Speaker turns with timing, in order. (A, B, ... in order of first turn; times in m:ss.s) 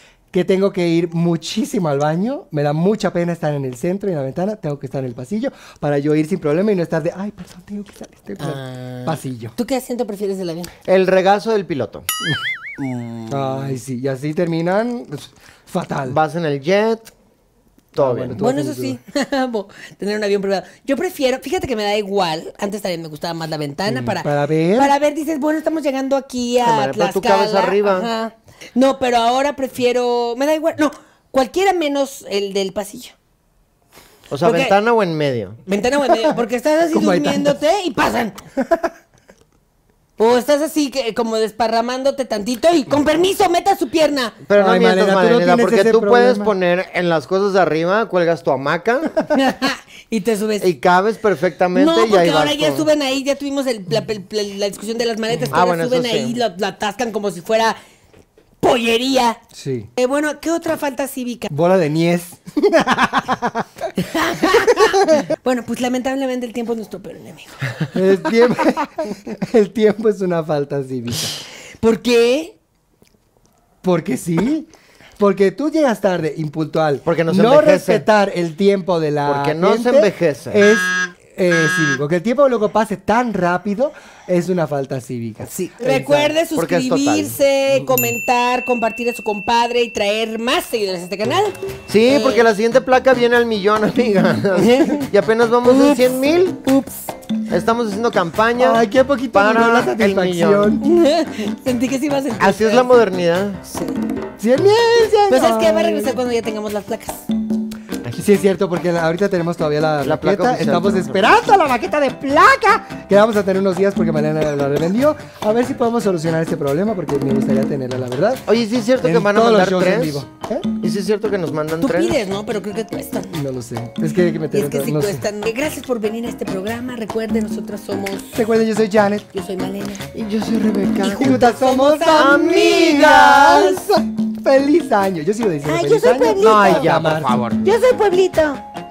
0:00.3-0:09.5 A
0:08.4-0:10.7 B
0:10.9-0:12.1 C
0:12.8-0:13.8 B
0:13.3-0:16.2 A
0:16.0-0:17.1 C
0:18.0-0:19.0 A
0:18.0-0:18.4 C
0:18.4-0:33.1 B
0:23.9-0:24.9 A
0:26.6-0:28.1 C
0:34.3-0:35.6 C
0:34.4-0:34.8 B
0:35.7-0:38.4 B
0:36.9-0:37.6 A
0:38.6-0:38.9 A
0:40.2-0:44.4 B
0:44.4-0:49.2 C
0:44.6-0:46.5 A
0:49.3-0:50.7 B
0:50.6-0:52.9 C
0:51.8-0:57.8 B
0:55.5-0:56.4 C
0:58.6-0:59.4 B
0:59.6-0:59.9 A
1:00.0-1:01.5 B
1:01.5-1:03.7 A
1:04.0-1:07.7 B
1:04.8-1:05.3 A
1:07.9-1:11.3 A
1:11.8-1:12.6 B
1:13.8-1:14.7 A
1:15.2-1:25.5 A
1:17.0-1:18.1 C
1:19.3-1:20.6 C
1:25.4-1:32.5 B
1:25.8-1:27.3 C
1:31.9-1:36.6 C
1:34.6-1:35.1 B
1:35.6-1:36.0 B
1:36.6-1:37.1 B
1:37.5-1:40.8 C
1:38.6-1:40.8 A
1:40.8-1:43.0 B
1:42.4-1:43.6 C
1:43.7-1:44.0 B
1:44.4-1:46.2 A
1:45.3-1:47.3 B
1:48.2-1:58.4 A
1:50.0-1:51.3 C
1:58.5-2:00.3 C
1:59.0-2:00.7 A
2:00.8-2:02.2 C
2:01.8-2:03.3 B
2:03.3-2:05.2 A
2:04.5-2:08.4 B
2:08.4-2:09.3 A
2:09.3-2:10.0 B
2:10.1-2:11.4 C
2:11.0-2:13.5 B
2:11.1-2:17.3 A
2:12.1-2:13.8 C
2:15.6-2:16.9 B
2:16.4-2:17.6 C
2:17.6-2:18.6 B